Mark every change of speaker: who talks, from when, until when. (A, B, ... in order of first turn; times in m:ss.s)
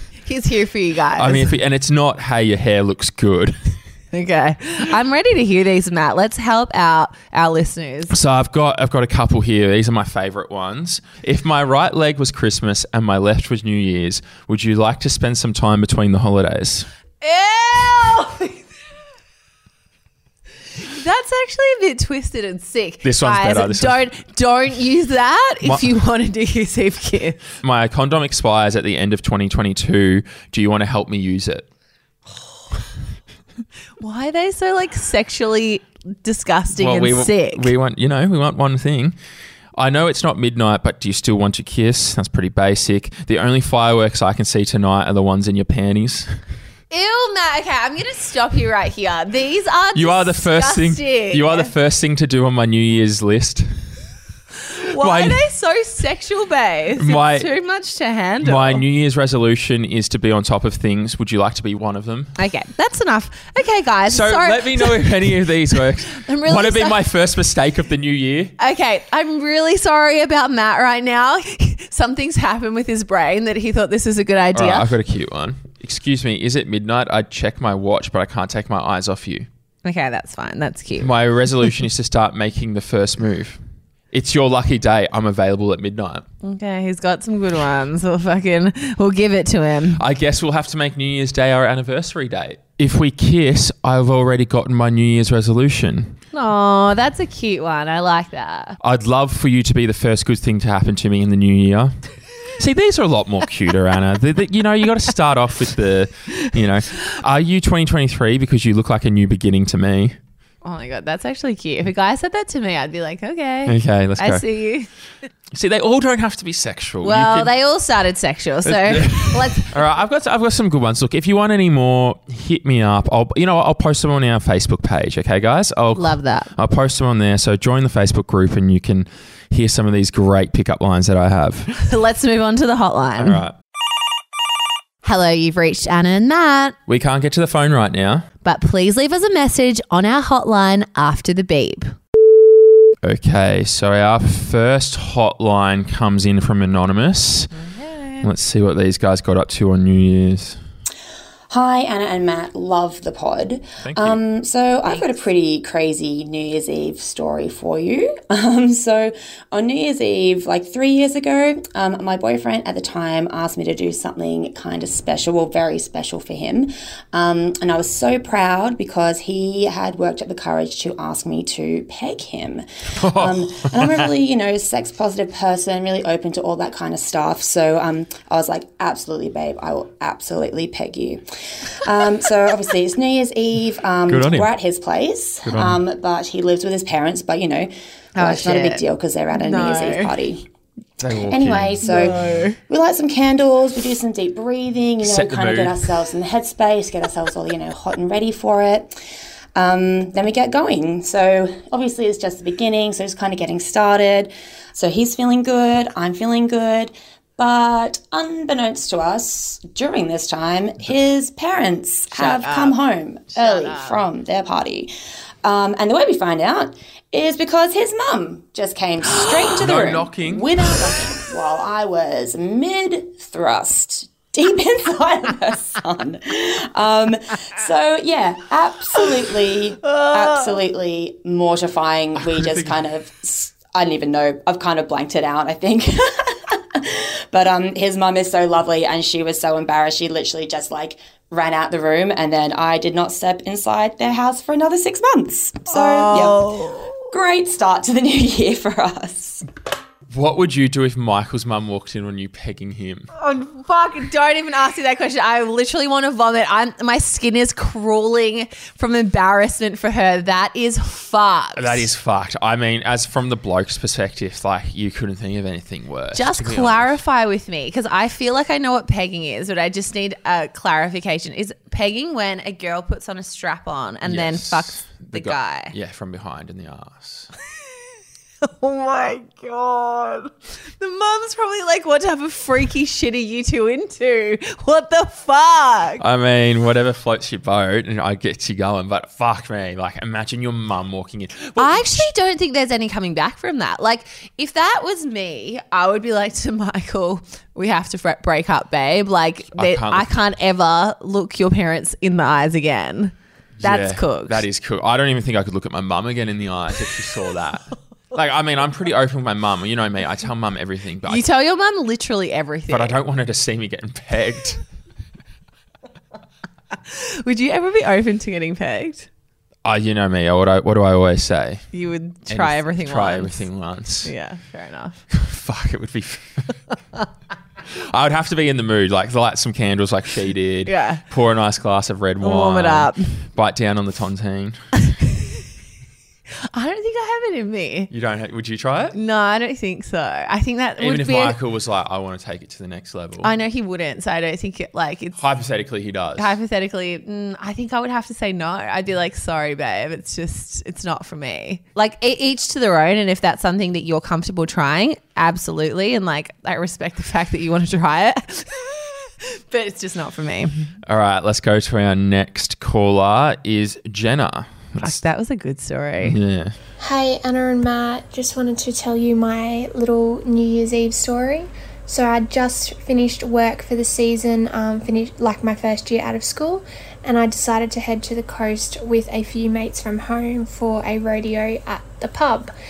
0:00.2-0:01.5 A
0:01.2-0:03.8 B
0:04.1-0:08.2 A
0:08.1-0:16.9 B
0:17.2-0:18.7 A
0:20.8-0:27.4 A
0:23.0-0:24.0 B
0:27.6-0:31.7 B
0:34.0-0:37.7 A
0:36.8-0:39.2 B
0:39.8-0:46.3 B
0:46.9-0:51.7 A
0:49.9-0:53.9 B
0:54.8-0:58.8 A
0:55.0-0:55.4 B
0:57.0-0:57.5 B
0:58.4-1:02.3 B
1:02.4-1:05.2 A
1:04.1-1:08.5 B
1:05.8-1:07.0 A
1:08.6-1:14.9 A
1:14.5-1:19.5 B
1:19.8-1:21.1 A
1:21.0-1:23.6 B
1:24.1-1:26.2 B
1:26.4-1:30.0 A
1:30.0-1:36.2 B
1:36.3-1:38.8 A
1:38.8-1:50.2 B
1:50.6-1:54.9 A
1:53.6-1:54.4 B
1:55.5-1:57.5 B
1:57.0-1:59.7 A
1:58.6-2:11.8 B
2:05.9-2:06.5 A
2:11.8-2:13.4 A
2:13.2-2:13.5 B
2:15.0-2:16.8 A
2:16.9-2:18.3 B
2:18.4-2:21.9 A
2:23.0-2:27.5 B
2:27.5-2:28.3 A
2:28.2-2:30.6 B
2:31.5-3:10.5 C
2:33.8-2:34.2 B
2:52.9-2:54.1 B
3:04.1-3:04.5 B
3:05.4-3:05.8 B
3:08.2-3:10.1 A
3:11.0-3:12.4 B
3:11.3-3:19.0 C
3:11.8-3:12.6 A
3:15.0-3:15.9 B
3:19.5-3:34.9 C
3:32.1-3:32.8 A
3:33.3-3:34.0 A
3:35.4-4:09.4 C
3:39.2-3:40.9 B
3:49.8-3:50.6 A
3:52.2-3:52.8 B
4:05.7-4:07.1 A
4:10.1-4:13.1 B
4:13.1-4:21.9 A
4:21.6-4:27.0 B
4:26.1-4:35.7 A
4:34.0-4:37.3 B
4:38.4-4:46.0 A
4:46.0-4:52.1 B
4:51.6-5:04.4 A
4:59.5-5:00.1 B
5:03.6-5:11.2 B
5:11.0-5:12.9 A
5:12.7-5:14.6 B
5:16.7-5:19.1 A
5:19.6-5:21.6 B
5:21.7-5:23.4 A
5:22.3-5:24.1 B
5:24.0-5:25.0 A
5:25.1-5:26.5 B
5:27.7-5:34.6 B
5:30.6-5:31.0 A
5:32.2-5:33.3 A
5:34.8-5:35.4 A
5:36.5-5:37.9 A
5:37.9-5:39.0 B
5:38.9-5:41.4 A
5:40.8-5:43.3 B
5:43.2-5:45.2 A
5:45.2-5:46.4 B
5:46.2-6:00.7 A
6:00.8-6:05.0 B
6:04.8-6:06.2 A
6:06.0-6:06.6 B
6:06.8-6:22.5 D